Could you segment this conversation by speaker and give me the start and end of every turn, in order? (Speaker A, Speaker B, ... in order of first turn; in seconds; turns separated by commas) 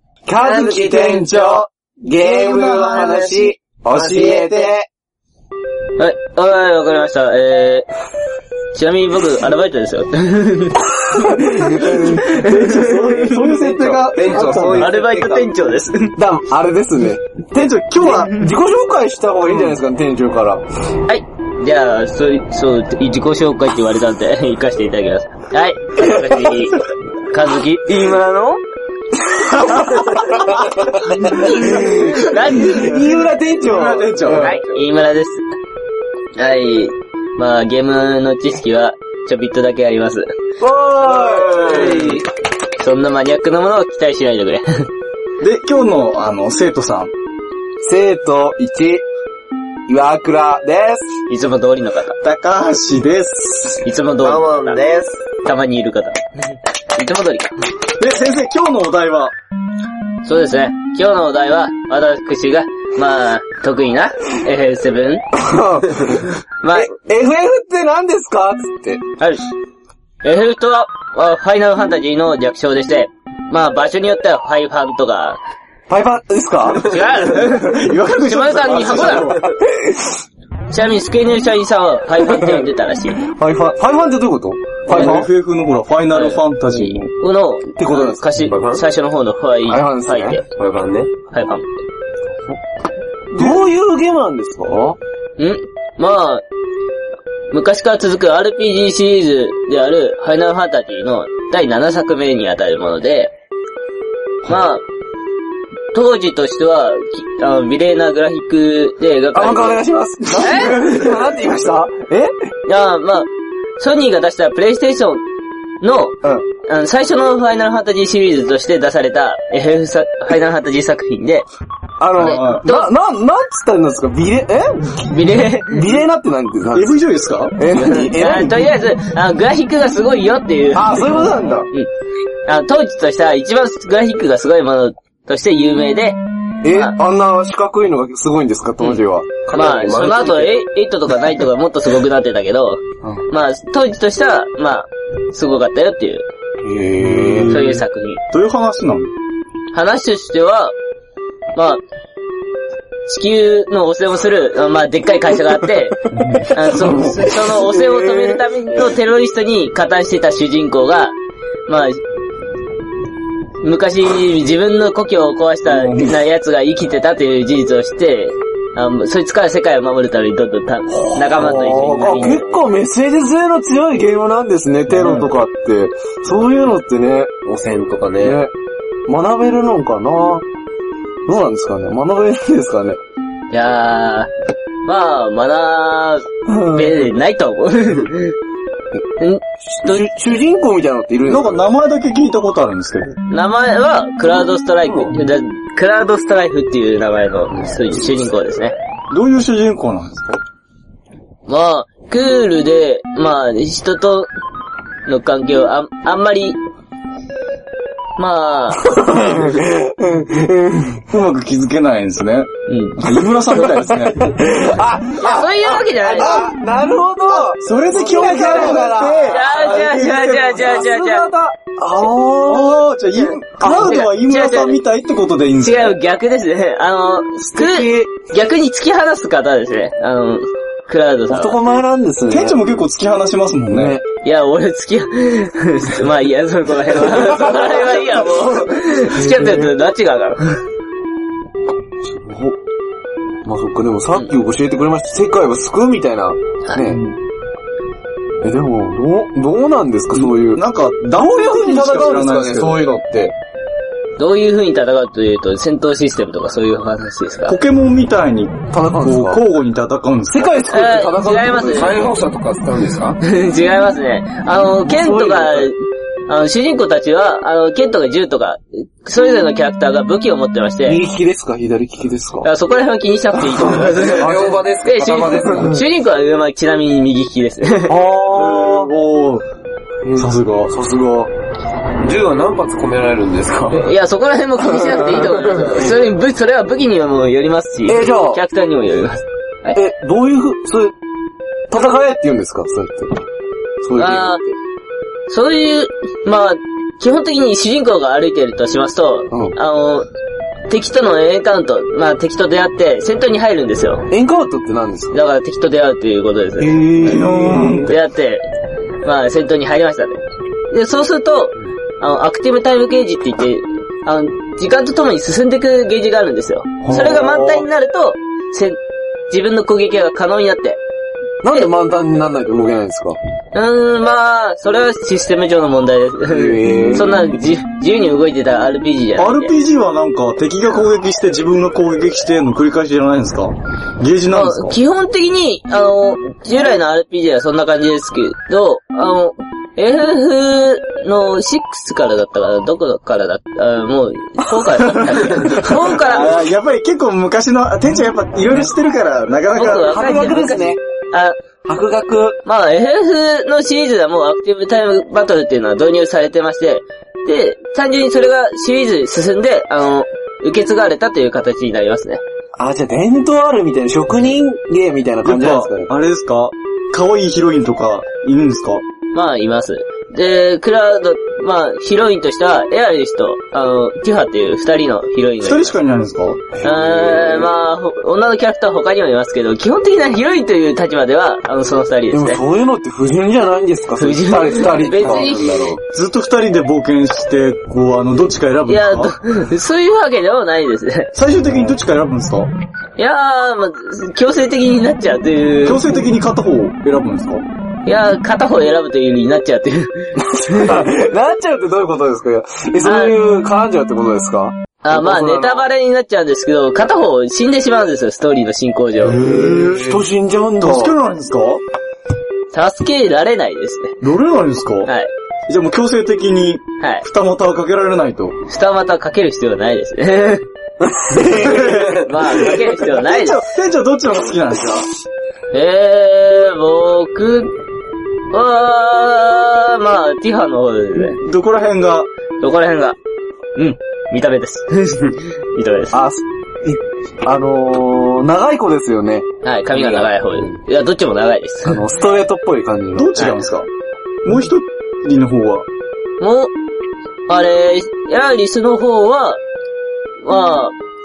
Speaker A: 0.2-4.8, Speaker B: 0.4-3.5, Speaker C: 2.9-4.8, Speaker D: 6.0-7.9, Speaker D: 8.7-13.0, Speaker A: 11.1-15.2, Speaker B: 12.7-14.9, Speaker C: 13.4-15.5, Speaker D: 14.3-16.1, Speaker A: 16.1-20.6, Speaker B: 17.5-18.4, Speaker D: 21.1-28.6, Speaker A: 31.4-34.5, Speaker D: 31.4-33.0, Speaker B: 31.6-32.1, Speaker B: 33.6-34.8, Speaker D: 34.3-35.4, Speaker D: 36.4-40.3, Speaker A: 40.6-42.1, Speaker B: 41.2-42.2, Speaker C: 41.2-42.2, Speaker D: 42.8-44.9, Speaker B: 45.4-47.1, Speaker A: 47.8-49.0, Speaker A: 49.9-51.1, Speaker D: 51.3-52.2, Speaker B: 52.2-53.8, Speaker D: 53.8-54.8, Speaker C: 54.2-55.2, Speaker D: 55.4-56.2, Speaker D: 56.9-57.5, Speaker B: 58.0-59.3, Speaker D: 60.2-65.2, Speaker A: 65.3-69.0, Speaker D: 66.6-66.9, Speaker D: 70.2-75.4, Speaker A: 75.9-77.0, Speaker D: 76.8-79.5, Speaker B: 77.3-79.5, Speaker A: 79.7-80.1, Speaker D: 80.7-83.2, Speaker A: 82.4-82.6, Speaker A: 83.2-85.3, Speaker B: 84.9-87.1, Speaker D: 84.9-85.2, Speaker D: 86.1-90.4, Speaker A: 87.8-88.3, Speaker C: 88.4-88.8, Speaker A: 89.7-90.4, Speaker C: 90.5-91.1, Speaker D: 91.3-91.7, Speaker A: 93.3-95.0, Speaker D: 95.4-96.4, Speaker D: 97.5-103.3, Speaker D: 104.5-104.8, Speaker D: 105.9-109.8, Speaker A: 109.3-112.3, Speaker D: 110.3-110.8, Speaker D: 112.7-115.2, Speaker D: 115.8-121.5, Speaker A: 122.0-125.1, Speaker B: 122.2-122.7, Speaker D: 122.2-122.9, Speaker D: 125.0-125.9, Speaker A: 125.7-127.0, Speaker B: 126.7-127.6, Speaker A: 127.5-128.7, Speaker D: 127.7-131.9, Speaker A: 130.7-131.7, Speaker D: 132.4-136.9, Speaker A: 136.6-139.4, Speaker C: 139.4-140.6, Speaker D: 139.5-146.2, Speaker A: 146.6-147.7, Speaker B: 147.0-149.1, Speaker D: 147.5-148.2, Speaker D: 149.7-150.7, Speaker D: 151.5-151.8, Speaker D: 153.1-161.1, Speaker B: 156.1-157.3, Speaker A: 156.7-158.4, Speaker D: 161.7-162.0, Speaker D: 163.6-172.6, Speaker B: 165.7-166.2, Speaker A: 170.9-177.3, Speaker B: 174.9-175.3, Speaker C: 177.4-178.4, Speaker A: 178.2-178.5, Speaker A: 179.1-180.4, Speaker A: 181.2-183.0, Speaker D: 183.5-184.3, Speaker D: 184.8-188.3, Speaker A: 186.5-187.0, Speaker D: 189.2-190.1, Speaker A: 189.7-191.7, Speaker B: 191.3-193.1, Speaker D: 193.3-198.7, Speaker B: 199.1-200.4, Speaker D: 201.5-204.3, Speaker D: 205.1-206.6, Speaker D: 208.2-208.9, Speaker A: 208.8-211.0, Speaker B: 211.1-214.3, Speaker D: 212.7-213.0, Speaker A: 213.4-222.8, Speaker D: 215.2-216.5, Speaker B: 217.3-220.7, Speaker D: 219.3-221.3, Speaker B: 222.4-226.0, Speaker D: 223.2-224.8, Speaker A: 223.6-224.0, Speaker D: 225.6-231.6, Speaker A: 227.4-228.1, Speaker A: 231.3-232.8, Speaker B: 232.3-234.0, Speaker A: 233.7-234.0, Speaker D: 234.2-240.6, Speaker A: 239.1-239.7, Speaker A: 242.0-242.6, Speaker A: 243.4-247.1, Speaker B: 246.8-247.2, Speaker A: 248.4-250.6, Speaker B: 250.1-253.0, Speaker A: 251.1-253.3, Speaker D: 254.2-257.6, Speaker B: 257.5-260.5, Speaker A: 258.7-259.4, Speaker A: 260.3-262.1, Speaker D: 260.7-262.0, Speaker C: 261.6-263.2, Speaker D: 263.2-271.0, Speaker A: 264.8-265.7, Speaker A: 270.8-272.5, Speaker D: 272.4-278.0, Speaker C: 273.9-275.8, Speaker A: 274.0-274.6, Speaker A: 277.9-278.9, Speaker B: 278.2-279.4, Speaker A: 280.0-281.3, Speaker B: 280.1-280.7, Speaker C: 282.0-283.9, Speaker D: 283.7-289.8, Speaker A: 284.9-285.4, Speaker A: 287.9-288.4, Speaker A: 289.7-290.9, Speaker A: 291.7-293.2, Speaker A: 293.8-294.6, Speaker D: 293.9-294.4, Speaker D: 295.3-300.1, Speaker A: 299.3-299.6, Speaker D: 300.7-304.1, Speaker A: 304.1-305.2, Speaker D: 305.1-306.9, Speaker A: 306.6-307.9, Speaker B: 306.9-308.0, Speaker D: 307.8-308.4, Speaker D: 309.0-318.8, Speaker B: 316.8-317.2, Speaker A: 316.9-317.6, Speaker D: 319.3-320.8, Speaker A: 321.4-323.2, Speaker D: 323.5-329.5, Speaker A: 326.3-327.3, Speaker B: 329.2-334.8, Speaker D: 334.3-346.4, Speaker B: 344.9-350.1, Speaker D: 349.5-351.4, Speaker A: 349.6-350.8, Speaker A: 351.6-352.4, Speaker D: 352.4-362.2, Speaker A: 362.6-365.9, Speaker B: 365.2-368.8, Speaker D: 369.1-375.7, Speaker B: 375.4-376.5, Speaker A: 376.5-377.5, Speaker D: 376.6-382.4, Speaker A: 382.1-385.4, Speaker D: 384.0-385.7, Speaker C: 384.9-385.8, Speaker B: 385.9-389.1, Speaker D: 388.7-391.1, Speaker B: 391.1-392.5, Speaker D: 393.0-396.0, Speaker B: 395.6-397.4, Speaker D: 397.9-400.8, Speaker A: 400.2-405.6, Speaker D: 402.8-403.2, Speaker D: 404.8-409.2, Speaker B: 409.1-410.0, Speaker A: 409.1-410.9, Speaker B: 410.6-411.6, Speaker D: 412.5-414.0, Speaker B: 414.0-414.9, Speaker D: 414.9-415.1, Speaker B: 415.5-418.4, Speaker D: 416.8-417.1, Speaker D: 418.5-420.4, Speaker A: 420.8-422.4, Speaker B: 421.3-422.1, Speaker D: 422.0-423.4, Speaker B: 422.7-424.9, Speaker D: 425.5-427.6, Speaker D: 428.3-431.2, Speaker B: 431.0-432.1, Speaker D: 432.4-433.0, Speaker D: 433.6-436.0, Speaker A: 435.9-440.5, Speaker D: 439.4-441.8, Speaker A: 441.6-443.2, Speaker B: 442.9-443.7, Speaker B: 444.2-445.7, Speaker D: 446.2-446.5, Speaker D: 447.3-449.4, Speaker D: 450.2-450.7